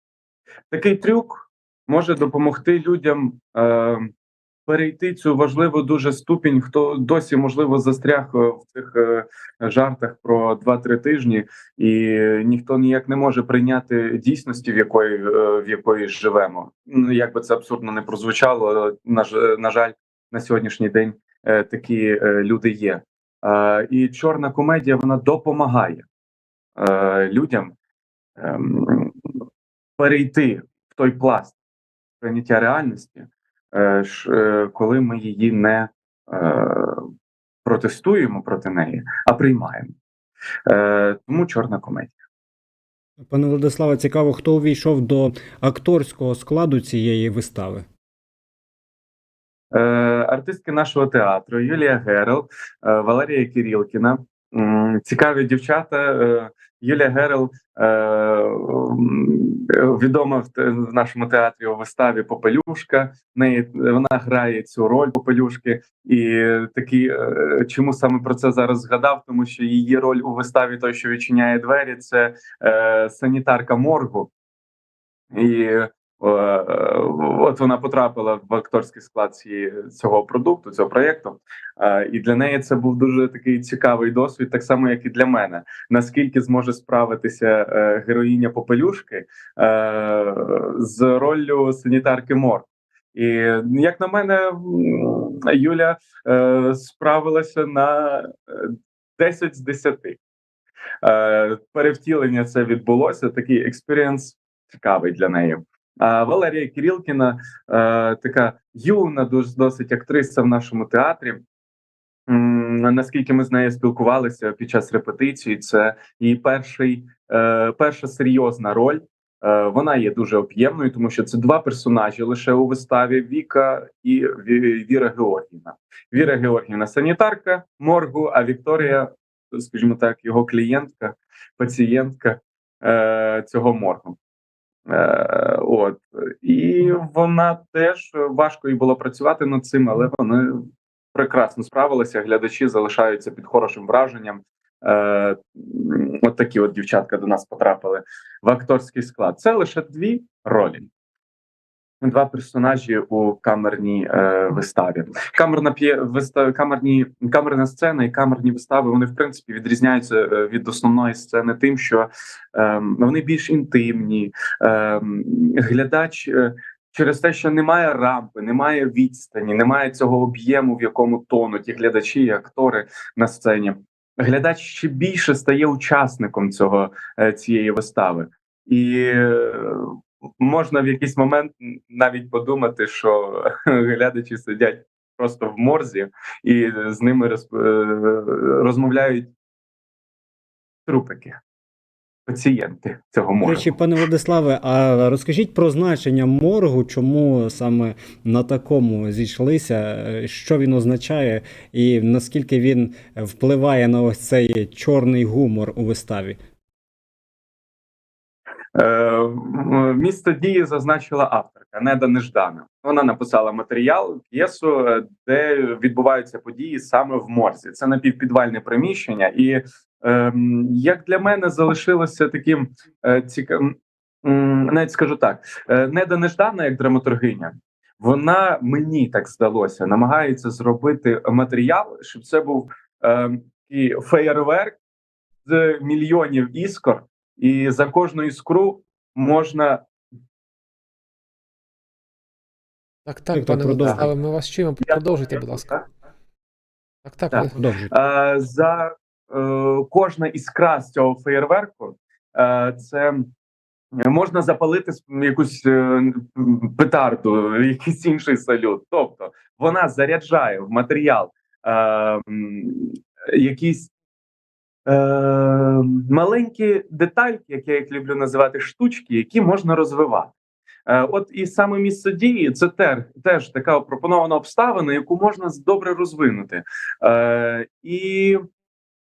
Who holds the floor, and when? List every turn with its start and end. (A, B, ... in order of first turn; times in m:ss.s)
0:00.7-0:04.1 A
0:04.7-0:26.1 A
0:26.8-0:27.7 A
0:28.4-0:29.2 A
0:30.0-0:31.6 A
0:32.2-0:37.0 A
0:37.6-0:39.9 A
0:40.7-0:42.2 A
0:43.2-0:47.8 B
0:49.7-1:14.3 A
1:15.3-1:40.2 A
1:41.0-1:51.4 A
1:52.3-2:14.2 A
2:14.9-2:30.9 A
2:32.0-3:09.3 A
3:10.9-3:11.4 A
3:12.3-3:13.8 A
3:13.4-3:26.4 B
3:28.8-3:54.8 A
3:55.5-3:59.8 A
4:03.1-4:05.8 C
4:03.3-4:04.1 B
4:05.5-4:05.8 A
4:07.0-4:07.5 C
4:07.3-4:13.3 A
4:07.6-4:07.9 B
4:14.0-4:23.9 A
4:24.9-4:30.3 A
4:30.9-4:38.4 A